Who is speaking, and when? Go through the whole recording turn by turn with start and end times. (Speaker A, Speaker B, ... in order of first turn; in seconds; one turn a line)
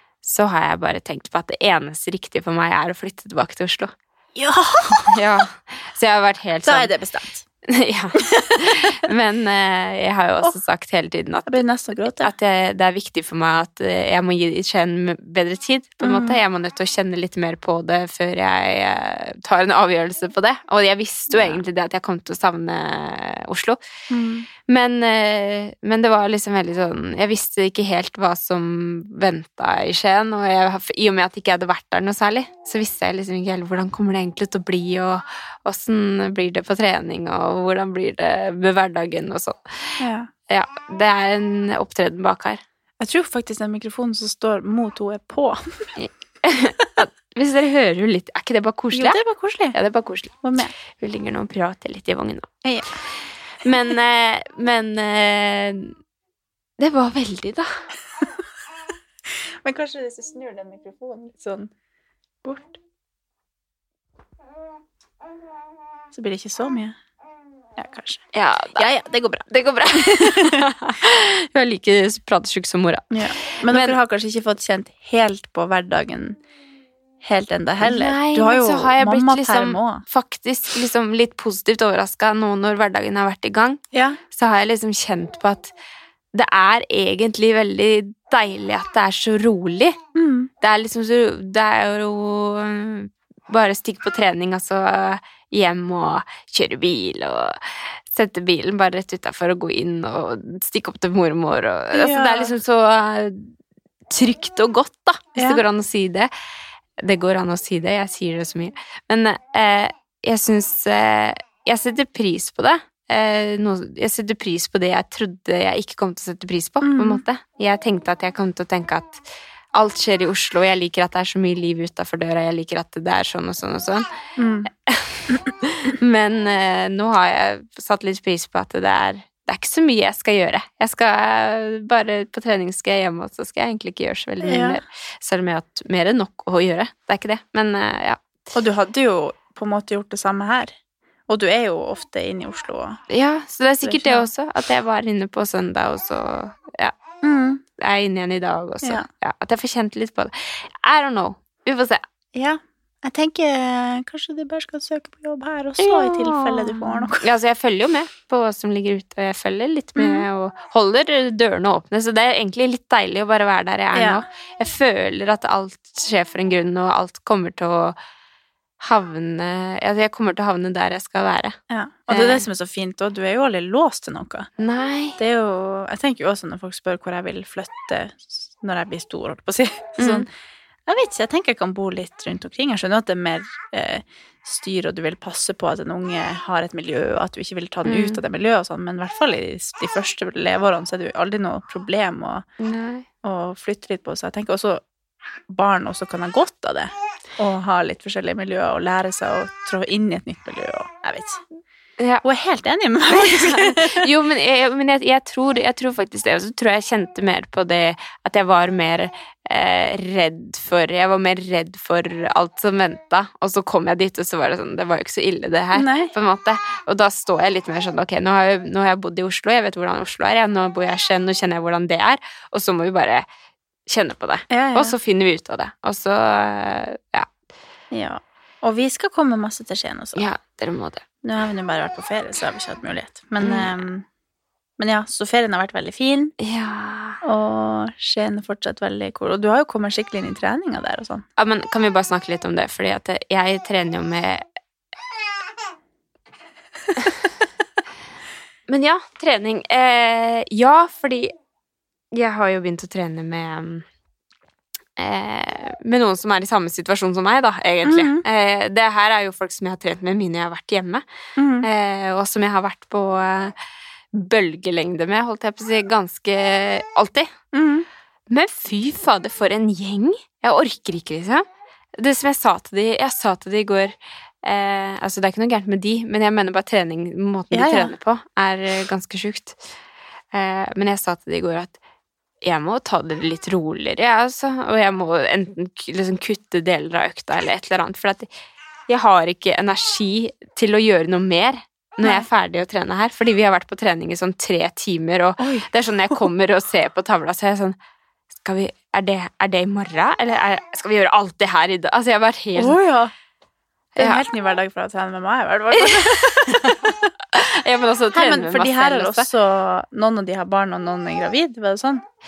Speaker A: 0.2-3.9
Speaker B: 4.3-5.2
Speaker A: 4.9-6.9
Speaker B: 6.6-7.4
Speaker A: 7.7-11.6
Speaker B: 8.4-8.7
Speaker B: 11.5-12.3
Speaker A: 12.2-23.8
Speaker B: 16.0-16.4
Speaker B: 21.3-21.6
Speaker B: 24.1-24.5
Speaker A: 24.7-42.6
Speaker B: 40.0-40.3
Speaker B: 43.0-45.9
Speaker A: 46.0-49.2
Speaker B: 48.9-49.8
Speaker A: 49.7-52.5
Speaker B: 50.4-50.7
Speaker B: 52.6-52.9
Speaker A: 53.6-56.0
Speaker A: 56.8-57.7
Speaker B: 59.6-61.7
Speaker B: 62.4-62.8
Speaker B: 66.1-67.0
Speaker B: 67.8-68.2
Speaker A: 68.3-68.9
Speaker B: 68.8-70.7
Speaker A: 69.5-74.0
Speaker B: 73.1-76.4
Speaker B: 77.2-80.0
Speaker A: 77.8-83.8
Speaker B: 83.9-84.2
Speaker A: 84.3-85.7
Speaker A: 86.3-90.0
Speaker B: 90.2-90.5
Speaker A: 90.6-103.5
Speaker B: 101.9-102.5
Speaker A: 104.1-106.3
Speaker B: 105.4-105.6
Speaker A: 107.0-119.2
Speaker B: 116.8-117.2
Speaker A: 119.7-124.0
Speaker B: 124.4-124.7
Speaker A: 124.9-138.2
Speaker B: 134.4-134.8
Speaker B: 138.5-140.7
Speaker B: 141.3-143.0
Speaker A: 143.1-146.9
Speaker B: 143.8-144.3
Speaker B: 147.2-147.6
Speaker A: 147.8-152.0
Speaker B: 152.3-157.3
Speaker A: 155.8-168.0
Speaker B: 160.0-160.3
Speaker B: 163.9-164.2
Speaker A: 168.8-171.6
Speaker B: 171.7-174.5
Speaker A: 172.1-172.4
Speaker A: 174.6-175.2
Speaker B: 175.2-180.3
Speaker A: 180.0-180.3
Speaker B: 180.9-192.4
Speaker A: 187.9-188.2
Speaker A: 192.6-193.1
Speaker B: 193.2-194.8
Speaker B: 195.5-201.4
Speaker A: 202.0-202.2
Speaker B: 202.2-204.1
Speaker A: 203.1-223.3
Speaker B: 215.8-216.1
Speaker A: 223.9-227.3
Speaker B: 224.5-225.0
Speaker B: 227.9-230.3
Speaker A: 230.2-231.0
Speaker B: 231.2-234.1
Speaker A: 233.4-233.7
Speaker B: 234.8-236.3
Speaker A: 236.4-237.2
Speaker B: 237.2-241.2
Speaker A: 241.4-244.4
Speaker A: 248.7-251.3
Speaker A: 252.1-253.9
Speaker A: 255.0-261.0
Speaker B: 257.9-258.2
Speaker B: 261.4-261.7
Speaker A: 261.6-263.5
Speaker A: 264.1-267.3
Speaker B: 267.5-267.9
Speaker A: 268.3-271.4
Speaker A: 272.0-279.6
Speaker B: 277.5-277.9
Speaker A: 280.3-281.8
Speaker A: 282.4-288.3
Speaker A: 288.9-297.8
Speaker B: 292.0-292.3
Speaker B: 295.4-296.2
Speaker A: 298.4-302.8
Speaker B: 302.6-303.1
Speaker A: 304.0-304.2
Speaker B: 304.0-307.1
Speaker A: 305.8-306.8
Speaker A: 307.3-309.3
Speaker B: 308.1-312.0